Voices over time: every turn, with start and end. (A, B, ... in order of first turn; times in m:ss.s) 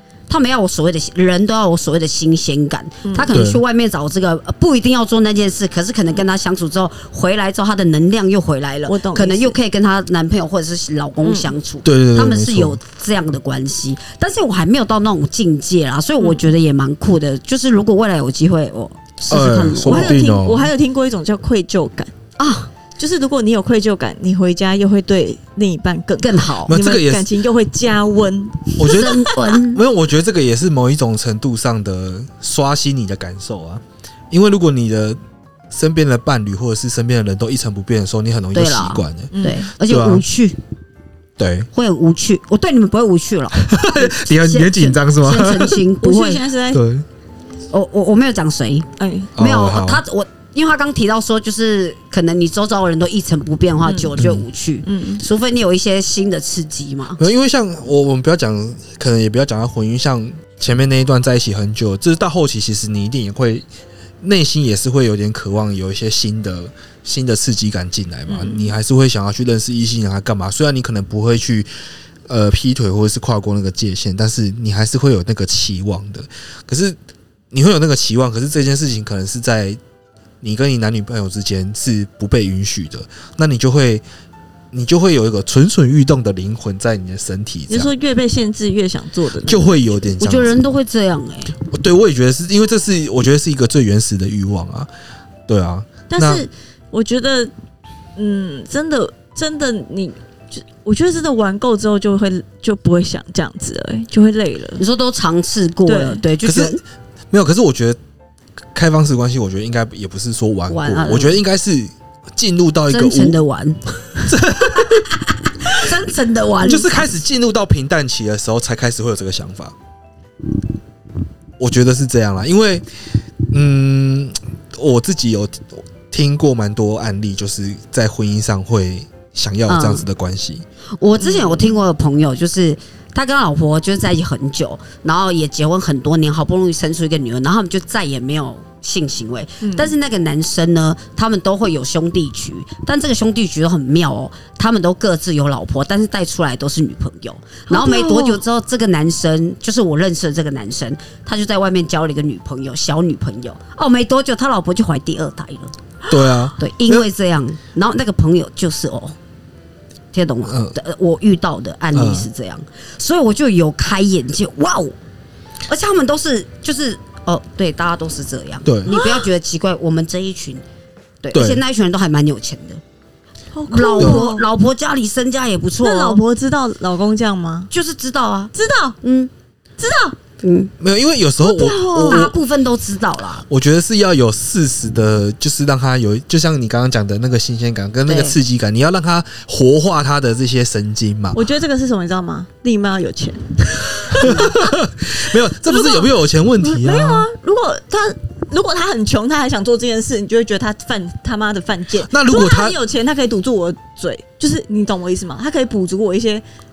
0:00.3-0:20.2 A
0:03.0-0:03.3 B
0:03.3-0:03.6 C
0:08.9-0:09.5 B
0:11.2-0:11.5 B
0:11.8-0:12.8 C
0:19.3-0:20.7 C
0:19.8-0:22.1 B
0:22.4-0:22.7 A
0:23.0-0:29.5 B
0:26.2-0:26.7 A
0:26.7-0:27.3 C
0:28.8-0:35.2 C
0:28.8-0:29.8 A
0:35.7-0:39.3 C
0:38.5-0:40.6 A
0:39.3-0:39.6 B
0:39.8-0:40.2 C
0:41.4-0:41.7 C
0:41.7-0:46.4 A
0:43.6-0:45.8 C
0:46.0-0:46.8 B
0:46.7-0:47.0 C
0:47.7-0:57.2 A
0:49.0-0:49.3 B
0:49.4-0:50.0 C
0:53.8-0:54.1 B
0:54.2-0:54.4 C
0:54.8-0:55.2 B
0:57.2-1:03.6 C
1:04.2-1:11.7 C
1:08.3-1:08.7 B
1:12.3-1:17.0 C
1:17.5-1:19.8 C
1:20.4-1:24.0 C
1:24.7-1:27.9 C
1:27.7-1:30.0 B
1:29.4-1:30.6 C
1:30.2-1:31.6 A
1:31.6-1:34.9 C
1:35.5-1:36.4 C
1:36.1-1:37.5 B
1:38.2-1:44.8 B
1:44.8-1:46.8 A
1:45.8-1:46.2 B
1:46.4-1:46.8 C
1:47.3-1:48.0 C
1:48.7-1:53.4 C
1:50.7-1:51.4 A
1:52.9-1:53.8 A
1:54.2-1:55.1 C
1:54.7-1:57.1 A
1:56.6-1:59.7 C
2:01.6-2:02.8 C
2:03.5-2:10.6 C
2:09.7-2:10.0 A
2:11.0-2:35.7 A
2:11.2-2:11.7 B
2:19.6-2:19.9 B
2:27.7-2:28.4 B
2:36.1-2:37.1 C
2:36.6-2:39.2 A
2:40.1-2:45.0 A
2:40.5-2:40.8 C
2:41.9-2:42.3 C
2:45.7-2:50.6 A
2:48.6-2:48.9 C
2:48.9-2:49.2 B
2:51.2-2:52.8 A
2:51.3-2:51.6 C
2:53.5-2:54.4 B
2:53.7-2:56.2 A
2:54.0-2:54.2 C
2:55.8-2:57.7 B
2:57.7-2:59.3 A
2:58.5-2:59.0 B
2:59.8-3:00.2 B
3:00.4-3:00.7 A
3:00.8-3:02.3 C
3:01.4-3:02.3 B
3:02.0-3:03.4 A
3:03.5-3:11.4 C
3:08.0-3:08.4 A
3:11.3-3:14.7 B
3:14.1-3:17.3 C
3:15.6-3:16.1 B
3:16.6-3:26.4 B
3:22.1-3:22.8 C